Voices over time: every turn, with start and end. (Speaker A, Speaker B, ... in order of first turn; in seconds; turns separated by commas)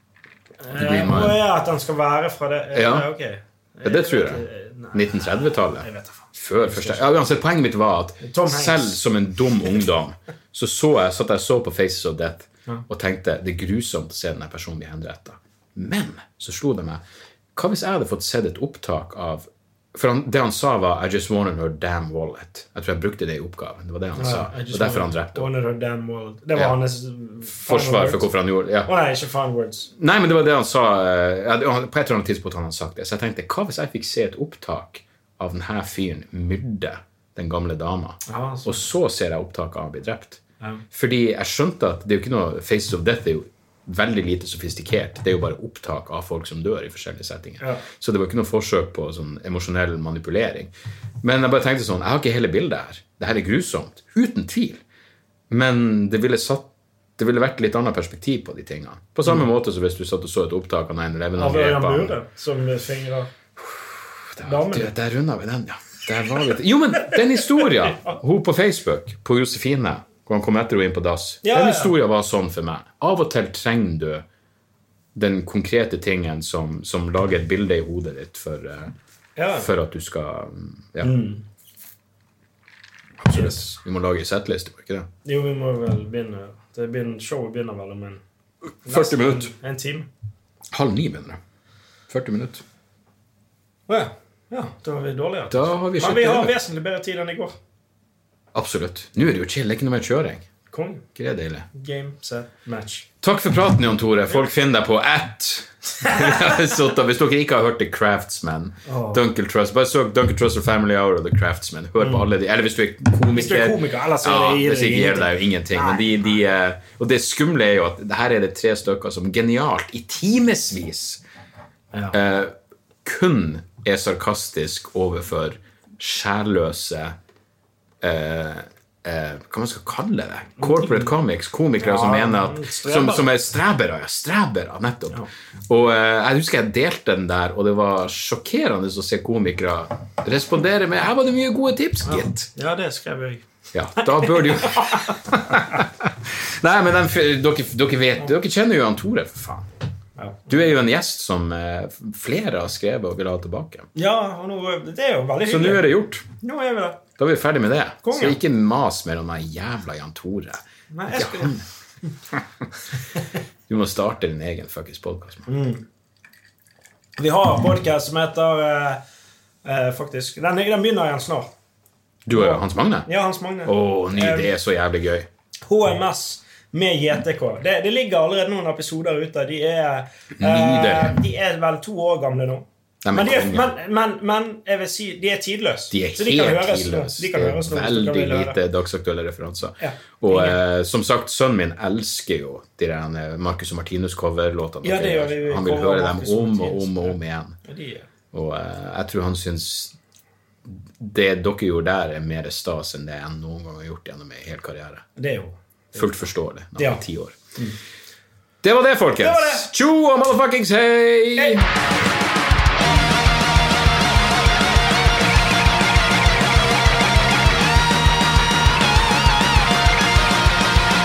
Speaker A: 0.6-7.1, Speaker B: 0.7-1.4, Speaker B: 2.7-3.1, Speaker B: 3.8-17.0, Speaker A: 8.2-9.0, Speaker B: 17.5-25.5, Speaker A: 24.1-28.3, Speaker B: 27.5-28.9, Speaker A: 28.8-29.9, Speaker B: 29.9-40.4, Speaker A: 38.3-38.9, Speaker B: 40.9-54.8, Speaker B: 55.5-62.1, Speaker A: 61.4-63.3, Speaker B: 63.6-74.2, Speaker A: 64.4-64.9, Speaker A: 71.4-71.9, Speaker B: 75.1-78.9, Speaker A: 79.3-79.7, Speaker B: 79.6-81.1, Speaker A: 81.0-81.4, Speaker B: 83.2-85.1, Speaker A: 85.2-88.2, Speaker B: 88.8-89.5, Speaker A: 88.8-90.1, Speaker B: 90.7-91.4, Speaker B: 92.1-92.6, Speaker A: 93.9-97.5, Speaker B: 95.5-96.5, Speaker B: 98.5-100.5, Speaker A: 100.7-101.0, Speaker B: 101.1-101.7, Speaker A: 101.7-103.1, Speaker B: 103.2-121.2, Speaker A: 106.0-106.5, Speaker A: 108.8-109.2, Speaker A: 112.0-112.3, Speaker A: 113.3-116.4, Speaker B: 122.1-127.2, Speaker B: 128.0-142.5, Speaker A: 130.6-131.1, Speaker A: 131.8-133.3, Speaker A: 142.0-143.4, Speaker B: 143.7-149.7, Speaker A: 143.9-145.8, Speaker A: 150.2-150.7, Speaker B: 150.5-153.9, Speaker A: 153.9-157.0, Speaker B: 155.4-156.2, Speaker B: 157.2-160.6, Speaker A: 158.0-158.4, Speaker A: 160.9-161.6, Speaker B: 161.1-161.6, Speaker B: 163.7-165.5, Speaker A: 165.5-165.8, Speaker A: 167.2-169.0, Speaker A: 169.6-171.5, Speaker B: 172.2-173.1, Speaker A: 172.3-174.5, Speaker B: 173.6-175.3, Speaker A: 175.6-188.6, Speaker B: 180.4-181.2, Speaker B: 183.0-183.7, Speaker B: 185.9-197.6, Speaker A: 189.8-190.6, Speaker A: 194.8-198.1, Speaker B: 198.3-199.9, Speaker B: 200.7-205.1, Speaker A: 205.2-206.1, Speaker B: 205.9-207.4, Speaker A: 206.7-207.0, Speaker B: 208.6-211.7, Speaker A: 209.2-209.7, Speaker A: 211.3-211.6